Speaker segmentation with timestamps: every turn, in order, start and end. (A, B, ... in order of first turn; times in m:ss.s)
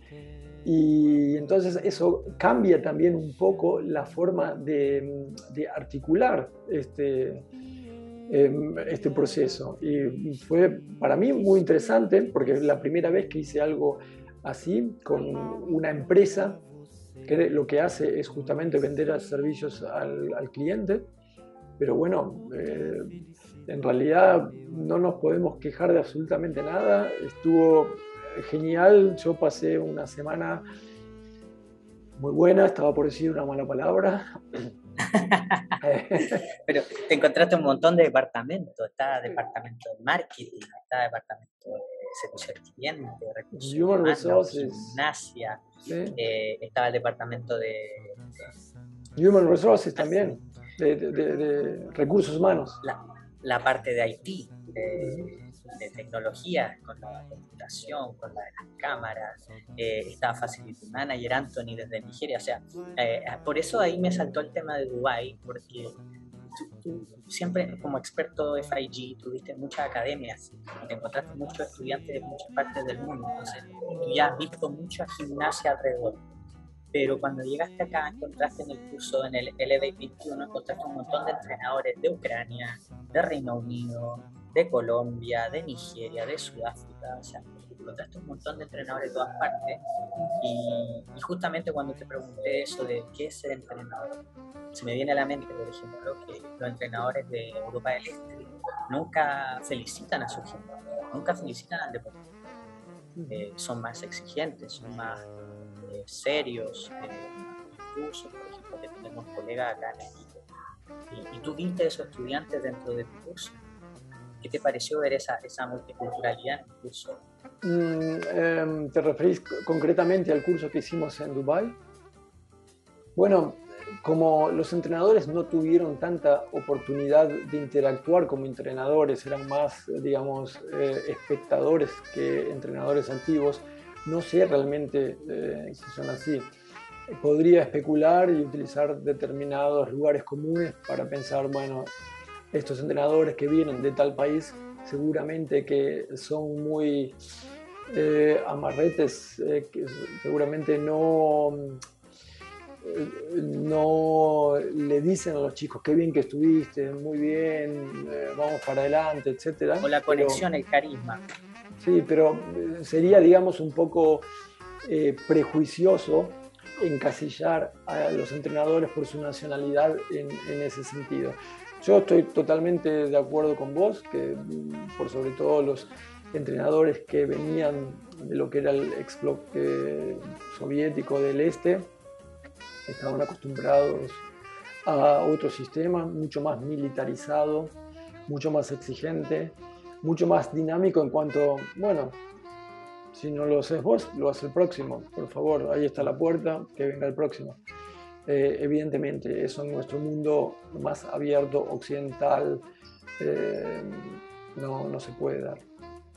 0:00.6-0:07.5 A
0:08.3-0:16.6 A
0:17.3-0:21.1 A
0:21.8-0:30.6 A
0:32.2-0:34.6 A
0:35.0-0:45.6 B
0:35.8-0:36.4 A
0:43.5-0:45.0 A
0:45.9-0:46.2 A
0:46.2-0:48.5 B
0:49.2-0:52.8 A
0:50.0-0:50.4 B
0:52.8-1:06.0 B
0:55.0-0:55.3 A
1:06.5-1:16.2 B
1:16.9-1:34.2 B
1:34.7-1:42.2 B
1:43.2-1:43.4 A
1:43.3-1:45.3 B
1:45.8-1:50.4 B
1:51.1-1:53.6 B
1:54.4-1:57.2 B
1:57.6-2:01.8 A
2:03.2-2:16.5 A
2:17.1-2:21.9 A
2:22.5-2:27.2 A
2:27.9-2:31.8 A
2:32.8-2:40.5 A
2:39.8-2:41.2 B
2:41.8-2:44.3 A
2:44.8-3:01.9 A
3:02.9-3:04.3 A
3:04.9-3:12.2 A
3:13.1-3:17.6 A
3:18.3-3:22.6 A
3:23.2-3:25.6 A